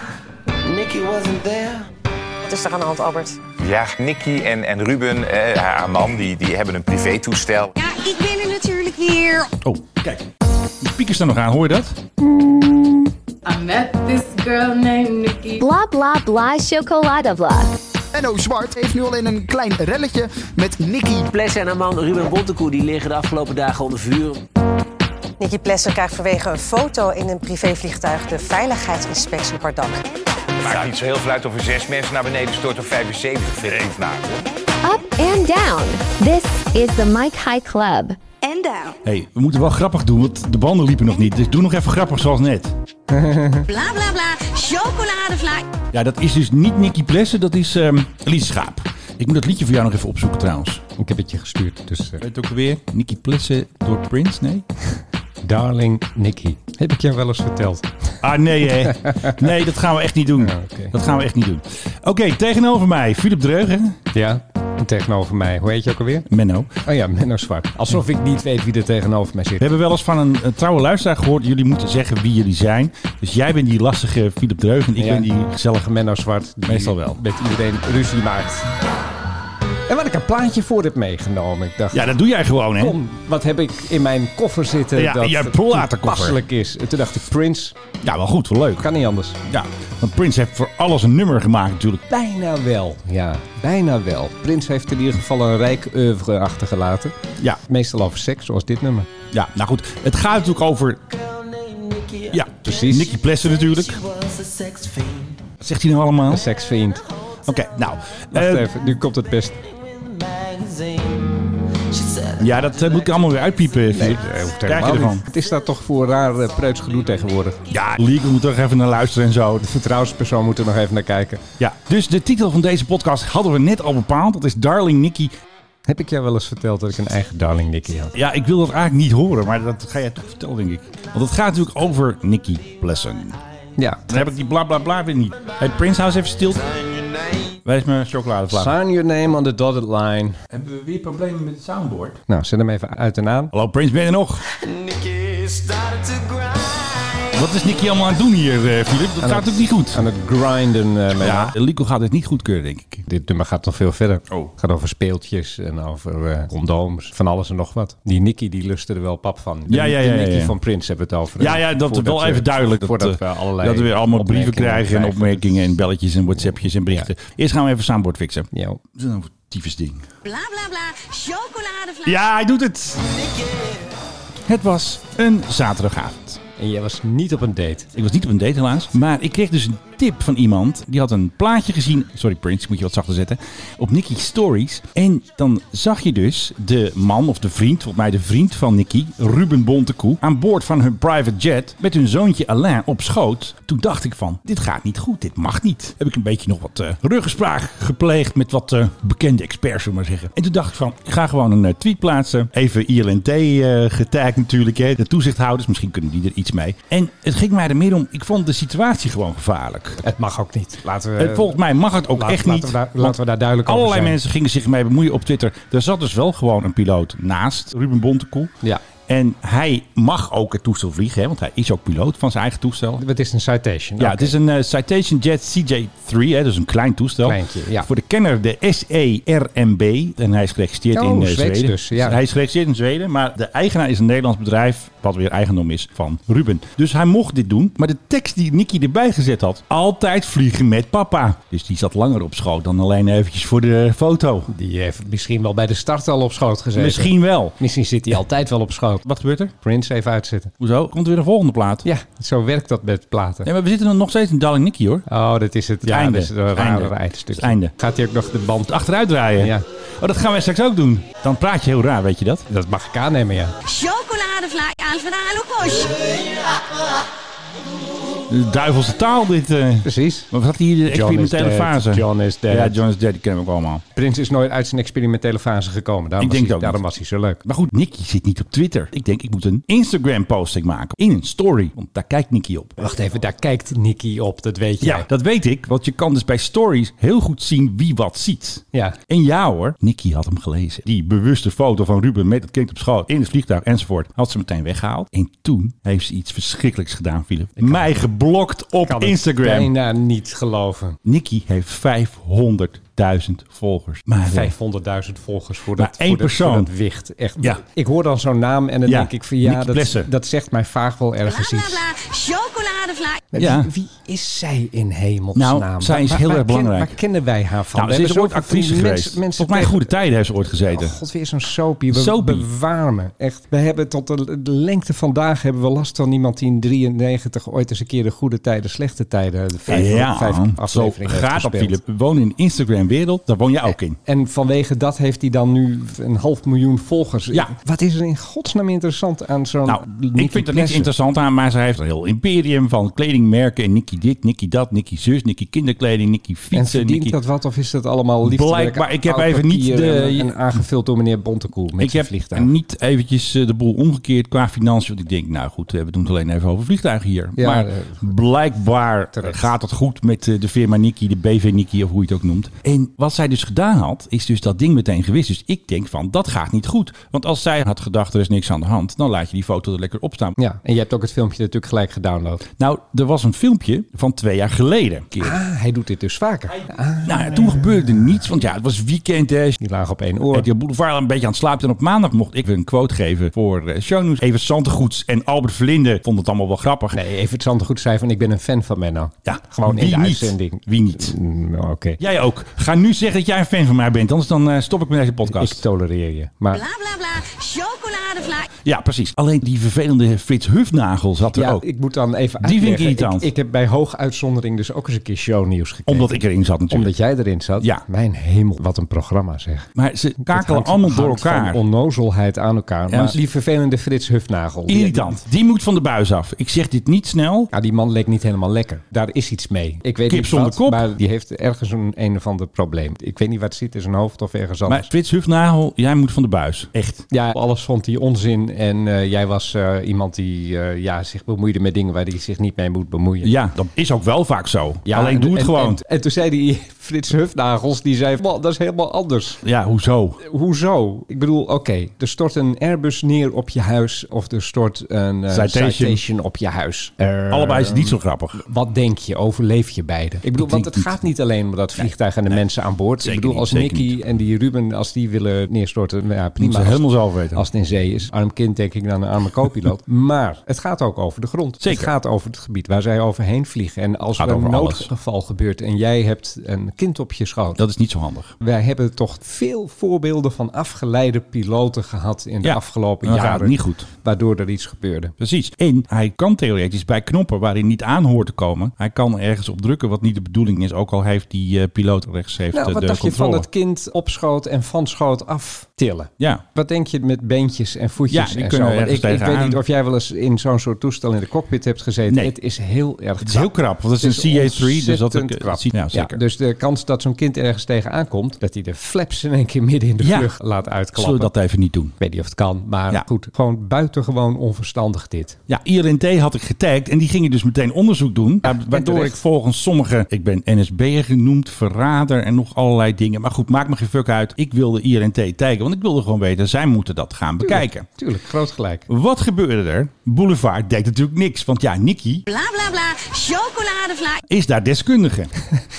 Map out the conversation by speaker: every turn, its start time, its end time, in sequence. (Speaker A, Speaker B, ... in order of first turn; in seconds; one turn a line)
Speaker A: 0.6-1.9
Speaker B: 2.4-3.4
Speaker C: 3.6-7.7
Speaker D: 7.8-9.5
Speaker E: 9.6-10.3
Speaker E: 10.8-12.0
Speaker F: 13.4-15.6
Speaker G: 15.6-17.7
Speaker H: 18.1-21.3
Speaker I: 21.6-24.3
Speaker B: 25.4-30.0
Speaker C: 30.6-34.3
Speaker G: 34.8-38.2
Speaker E: 39.0-42.7
Speaker J: 43.1-43.7
Speaker D: 43.7-45.7
Speaker E: 45.9-50.8
Speaker J: 51.0-52.2
Speaker E: 52.2-54.6
Speaker J: 55.4-57.9
Speaker E: 58.2-64.0
Speaker J: 58.6-59.5
Speaker J: 60.4-60.9
Speaker J: 64.1-66.3
Speaker E: 66.3-66.8
Speaker J: 66.8-69.6
Speaker E: 69.6-75.9
Speaker J: 75.0-78.7
Speaker E: 76.6-77.2
Speaker J: 79.9-82.2
Speaker E: 81.9-83.0
Speaker J: 82.8-87.8
Speaker E: 85.0-86.4
Speaker E: 88.0-88.9
Speaker J: 88.8-89.4
Speaker E: 89.5-92.0
Speaker J: 92.1-99.1
Speaker E: 99.3-101.0
Speaker A: 101.1-105.5
Speaker E: 102.3-104.0
Speaker J: 102.6-103.1
Speaker E: 105.6-106.5
Speaker J: 106.3-107.0
Speaker E: 107.5-108.7
Speaker J: 108.3-109.6
Speaker A: 109.6-113.9
Speaker E: 112.4-115.2
Speaker J: 113.9-117.6
Speaker E: 117.7-119.6
Speaker J: 119.6-121.4
Speaker E: 121.6-125.3
Speaker J: 125.9-128.1
Speaker E: 128.1-133.4
Speaker J: 133.8-134.3
Speaker E: 134.1-136.7
Speaker A: 136.5-137.6
Speaker E: 137.6-138.7
Speaker J: 138.5-140.4
Speaker E: 140.5-142.2
Speaker J: 142.3-143.5
Speaker E: 143.5-144.4
Speaker A: 144.4-147.3
Speaker E: 147.3-150.0
Speaker J: 149.2-151.5
Speaker E: 151.2-153.0
Speaker J: 153.1-165.6
Speaker E: 159.7-160.5
Speaker E: 161.4-170.1
Speaker J: 168.5-168.8
Speaker D: 170.2-172.3
Speaker E: 172.0-173.2
Speaker A: 173.2-173.7
Speaker E: 174.4-176.4
Speaker J: 176.6-177.9
Speaker E: 177.9-210.0
Speaker J: 210.0-211.6
Speaker E: 211.2-218.5
Speaker J: 212.2-214.2
Speaker E: 219.1-223.0
Speaker J: 223.0-224.3
Speaker E: 224.0-244.5
Speaker J: 227.2-227.9
Speaker J: 230.9-232.2
Speaker J: 244.5-249.1
Speaker E: 246.8-247.6
Speaker E: 249.0-249.5
Speaker J: 249.6-250.5
Speaker E: 250.6-251.9
Speaker J: 251.8-253.5
Speaker E: 253.4-255.1
Speaker J: 255.1-258.7
Speaker E: 255.9-257.7
Speaker E: 258.7-262.4
Speaker J: 259.4-259.6
Speaker J: 262.5-263.5
Speaker D: 263.6-266.2
Speaker E: 268.3-273.8
Speaker J: 269.8-270.3
Speaker J: 270.9-272.8
Speaker J: 273.9-277.4
Speaker E: 276.2-276.8
Speaker E: 277.4-282.8
Speaker J: 282.8-285.1
Speaker E: 284.8-299.7
Speaker J: 288.7-289.0
Speaker J: 297.6-297.9
Speaker J: 298.8-301.0
Speaker E: 301.1-304.5
Speaker J: 304.2-311.8
Speaker E: 305.8-306.7
Speaker E: 308.9-310.1
Speaker D: 311.2-313.2
Speaker J: 313.3-319.9
Speaker E: 313.4-313.7
Speaker E: 315.4-317.0
Speaker E: 317.7-320.9
Speaker J: 320.7-331.8
Speaker E: 321.9-322.5
Speaker E: 329.7-334.0
Speaker J: 334.0-340.9
Speaker E: 339.6-347.1
Speaker J: 346.5-352.5
Speaker E: 348.2-350.3
Speaker E: 351.8-370.4
Speaker J: 357.4-358.1
Speaker J: 359.1-359.5
Speaker J: 370.4-372.4
Speaker E: 372.6-375.4
Speaker J: 375.2-378.2
Speaker E: 377.1-379.6
Speaker J: 379.6-380.5
Speaker E: 380.3-387.0
Speaker J: 386.9-392.0
Speaker E: 389.2-391.1
Speaker E: 392.0-395.6
Speaker J: 395.2-396.6
Speaker D: 396.5-398.5
Speaker E: 398.6-401.6
Speaker J: 401.3-406.1
Speaker E: 402.4-403.3
Speaker E: 405.9-406.9
Speaker J: 406.7-409.7
Speaker E: 409.8-411.6
Speaker J: 410.2-415.2
Speaker E: 412.9-413.2
Speaker E: 414.7-417.5
Speaker J: 417.5-424.9
Speaker E: 420.1-420.9
Speaker E: 424.6-427.0
Speaker J: 427.1-433.3
Speaker E: 433.2-435.8
Speaker J: 434.9-439.4
Speaker E: 439.4-440.2
Speaker J: 440.2-467.6
Speaker E: 445.3-446.0
Speaker E: 447.3-448.4
Speaker E: 450.4-451.0
Speaker E: 451.8-452.4
Speaker E: 453.0-454.0
Speaker E: 456.4-457.4
Speaker E: 461.6-461.9
Speaker E: 464.2-464.9
Speaker E: 467.6-468.3
Speaker J: 468.4-475.1
Speaker E: 472.4-473.9
Speaker E: 475.2-483.4
Speaker J: 482.5-501.3
Speaker E: 488.1-489.6
Speaker E: 492.1-492.3
Speaker E: 493.2-496.2
Speaker E: 500.0-500.3
Speaker E: 500.9-501.9
Speaker J: 502.0-505.4
Speaker E: 505.5-517.9
Speaker J: 508.4-509.2
Speaker J: 517.4-518.9
Speaker E: 518.9-522.3
Speaker D: 522.3-524.2
Speaker E: 524.3-525.3